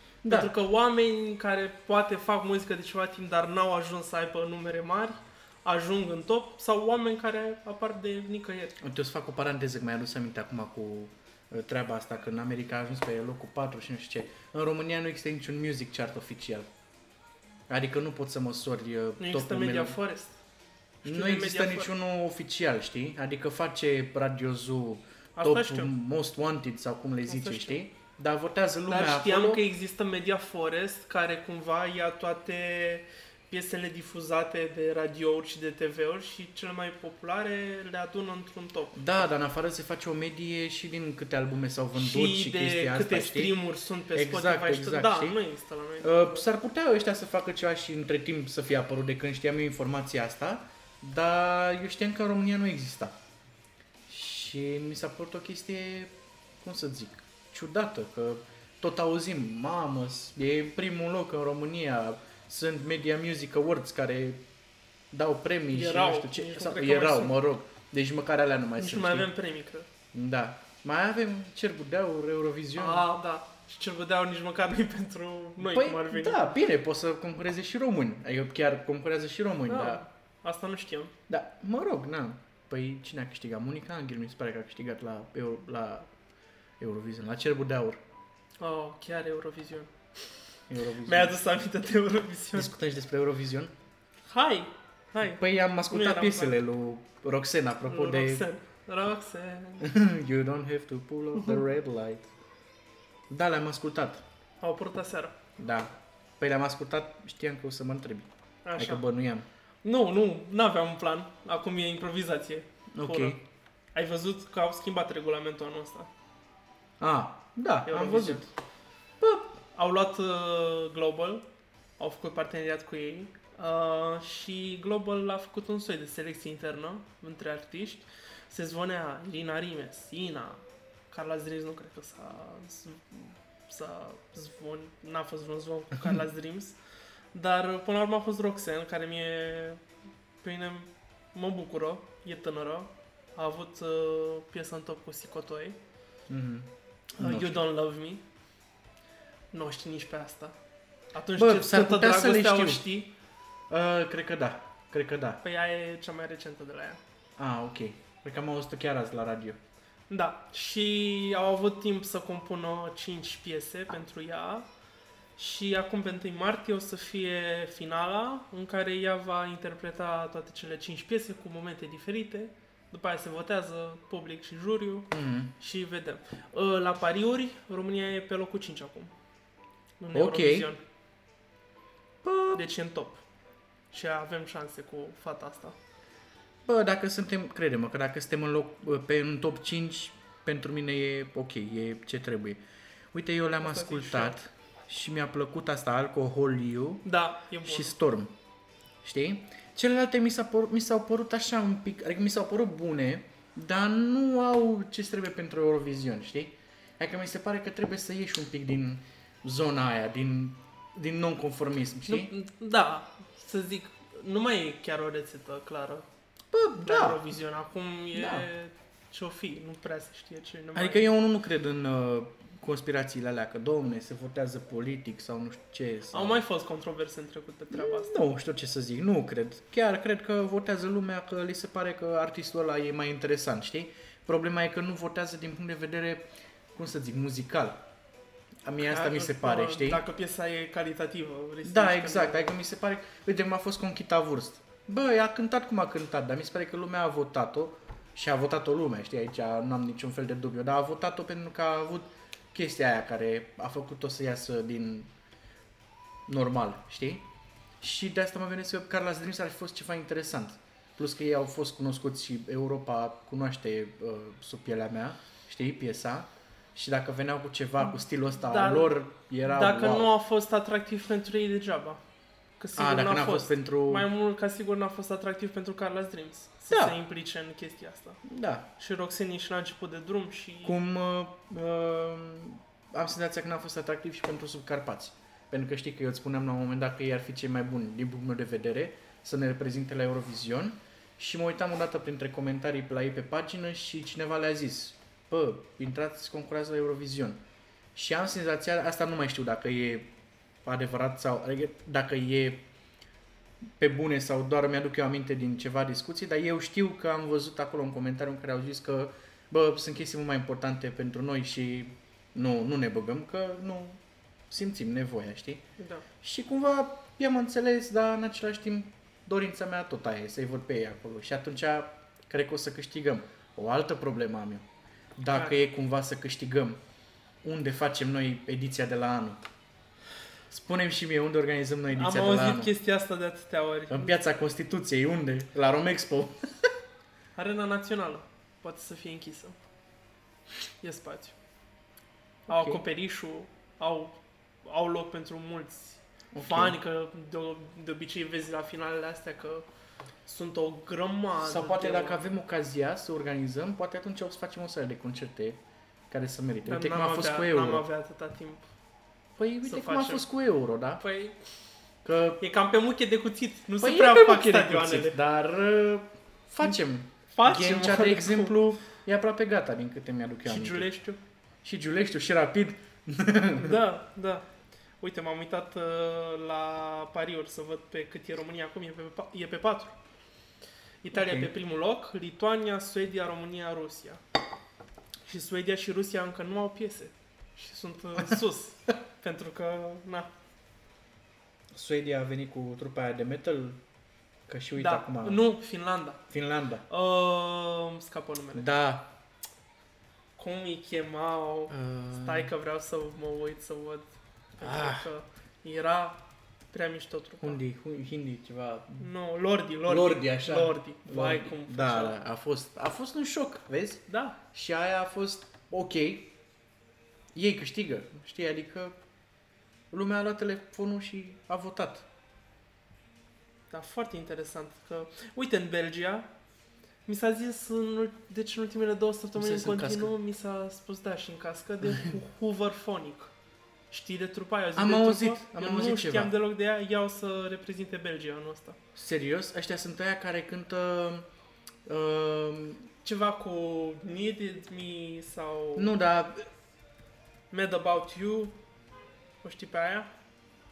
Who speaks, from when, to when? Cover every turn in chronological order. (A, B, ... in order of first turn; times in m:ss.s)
0:00.2-0:00.5 A
0:00.3-0:08.8 B
0:08.8-0:16.7 A
0:17.7-0:20.0 A
0:19.2-0:20.4 B
0:21.0-0:21.9 B
0:21.0-0:29.6 A
0:25.4-0:25.9 B
0:27.3-0:27.8 B
0:28.9-0:39.0 B
0:38.9-0:43.6 A
0:42.0-0:46.4 B
0:44.1-0:45.4 A
0:46.0-0:53.2 A
0:54.1-1:04.4 A
1:05.1-1:09.3 A
1:05.7-1:07.4 B
1:08.8-1:09.9 B
1:10.1-1:13.1 A
1:12.8-1:16.5 B
1:15.6-1:20.0 A
1:19.7-1:21.1 B
1:21.3-1:26.1 A
1:26.8-1:28.0 A
1:28.6-1:29.9 B
1:30.7-1:31.4 A
1:31.0-1:32.7 B
1:32.5-1:33.7 A
1:34.3-1:36.6 B
1:35.3-1:38.4 A
1:37.8-1:39.9 B
1:39.8-1:42.3 A
1:43.3-1:44.2 A
1:44.6-1:45.4 B
1:45.6-1:49.5 A
1:48.6-1:49.0 B
1:49.8-1:53.4 B
1:52.9-1:53.4 A
1:53.9-1:56.1 B
1:57.0-1:58.4 A
1:57.9-1:58.5 B
1:59.2-1:59.6 A
1:59.7-2:01.4 B
2:02.0-2:16.8 B
2:17.3-2:19.8 B
2:20.4-2:25.8 B
2:26.3-2:27.7 A
2:27.2-2:28.2 B
2:29.5-2:30.5 B
2:31.1-2:33.1 B
2:31.4-2:32.9 A
2:33.7-2:35.4 A
2:35.4-2:37.0 B
2:37.4-2:39.6 A
2:40.1-2:44.7 B
2:45.4-2:59.1 B
2:55.1-2:55.5 A
3:00.0-3:00.8 B
3:00.1-3:00.7 A
3:02.2-3:02.6 A
3:02.5-3:03.2 B
3:03.9-3:05.8 B
3:06.6-3:12.6 A
3:13.1-3:17.0 A
3:13.6-3:14.4 B
3:17.0-3:18.0 B
3:17.6-3:18.3 A
3:19.0-3:32.3 A
3:32.0-3:36.0 B
3:36.5-3:37.2 A
3:36.8-3:41.1 B
3:38.1-3:38.5 A
3:40.7-3:46.4 A
3:46.1-3:48.2 B
3:47.7-3:57.8 A
3:58.6-4:00.0 A
3:58.8-4:02.5 B
4:01.6-4:15.1 A
4:16.3-4:17.2 A
4:17.8-4:30.1 A
4:28.4-4:32.0 B
4:32.6-4:38.2 B
4:32.8-4:34.1 A
4:36.7-4:37.0 A
4:38.2-4:38.7 A
4:38.8-4:40.8 B
4:40.6-4:57.4 A
4:57.9-5:00.1 A
5:00.6-5:02.6 A
5:03.8-5:15.6 A
5:15.8-5:16.0 B
5:16.2-5:24.6 A
5:25.2-5:26.8 A
5:25.3-5:25.6 B
5:27.4-5:29.4 A
5:30.5-5:32.7 A
5:31.9-5:34.2 B
5:33.9-5:36.7 A
5:37.4-5:39.6 B
5:40.8-5:41.4 B
5:42.5-5:42.8 A
5:42.5-5:49.6 B
5:46.3-5:46.8 A
5:50.2-5:52.2 B
5:51.4-5:57.8 A
5:56.6-5:58.7 B
5:59.4-6:01.0 A
5:59.6-6:00.2 B
6:01.0-6:01.4 B
6:02.0-6:02.4 A
6:02.4-6:05.2 B
6:03.8-6:10.9 A
6:07.3-6:08.6 B
6:10.4-6:11.2 B
6:11.6-6:13.8 A
6:13.5-6:14.4 B
6:15.0-6:20.0 B
6:21.0-6:24.2 B
6:21.1-6:21.5 A
6:25.3-6:30.3 B
6:31.7-6:33.8 A
6:34.5-6:35.4 A
6:34.8-6:36.2 B
6:36.3-6:36.8 A
6:36.9-6:38.7 B
6:38.5-6:39.1 A
6:40.4-6:46.2 B
6:41.7-6:42.5 A
6:44.6-6:45.1 A
6:46.7-6:47.6 B
6:47.4-6:49.1 A
6:49.0-6:52.2 B
6:49.8-6:56.3 A
6:54.1-6:54.4 B
6:57.3-6:59.0 A
6:59.9-7:02.0 A
7:03.7-7:06.3 B
7:07.0-7:13.3 B
7:09.4-7:10.1 A
7:13.9-7:18.8 B
7:14.8-7:16.3 A
7:18.9-7:21.2 A
7:21.8-7:22.8 A
7:23.0-7:25.9 B
7:25.8-7:26.5 A
7:27.5-7:28.6 B
7:29.4-7:30.1 B